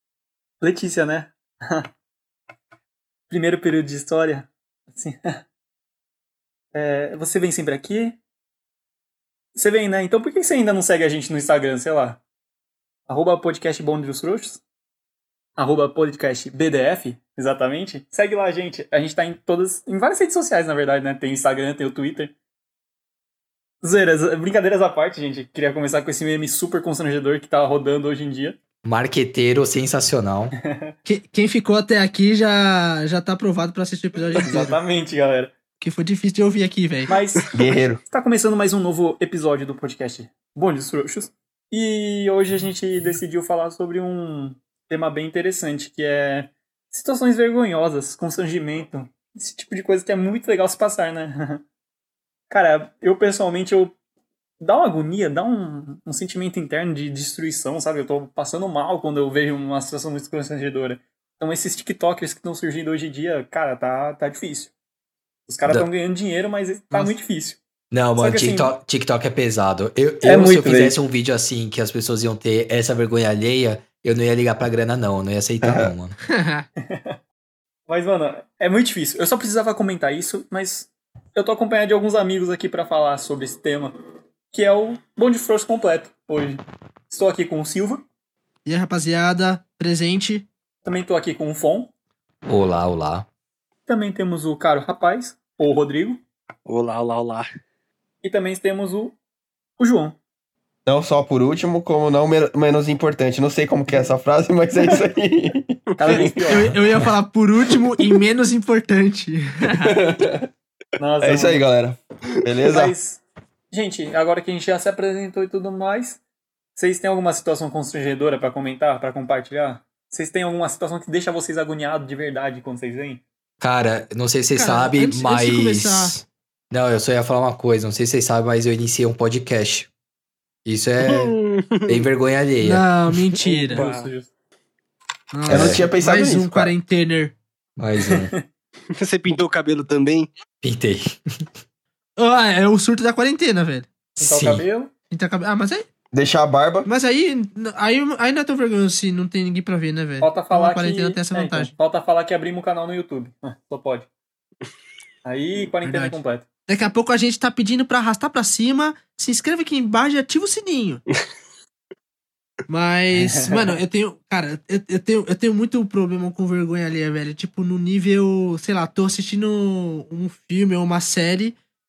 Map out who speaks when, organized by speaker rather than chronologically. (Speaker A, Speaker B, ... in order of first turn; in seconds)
Speaker A: 0.6-1.9, 3.3-5.4, 6.7-8.2, 9.5-12.2, 13.1-14.6, 15.6-22.3, 23.8-28.6, 30.6-30.9, 34.4-35.5, 37.1-51.6, 52.5-53.9, 54.6-64.7, 65.5-67.6, 68.2-68.7, 70.2-71.0, 76.8-77.2, 77.9-84.0, 84.5-88.0, 90.8-91.9, 93.9-96.2, 98.2-99.2, 99.8-100.2, 106.0-106.8, 111.0-111.6, 112.7-116.2, 116.8-123.2, 133.4-134.3, 138.0-138.4, 144.2-144.9, 150.2-154.1, 155.2-156.4, 163.1-163.7
Speaker B: 28.8-30.5, 67.9-76.2, 92.5-93.2, 123.6-129.9, 130.6-131.3, 131.9-132.9, 135.5-135.8, 137.8-138.3, 140.6-141.5, 144.2-144.7
Speaker C: 31.0-34.8, 35.8-37.2, 76.3-76.6, 88.7-90.5, 106.1-110.0, 124.5-126.1, 132.6-133.9, 135.3-137.3, 142.2-143.9, 145.1-145.9, 146.8-151.7, 155.8-161.0, 162.7-171.6
Speaker D: 37.5-38.0, 75.6-75.9, 100.8-106.7, 109.8-110.5, 111.2-112.9, 135.5-136.7, 146.1-146.9
Speaker E: 96.7-97.5, 131.0-132.0, 133.7-134.1, 138.9-140.3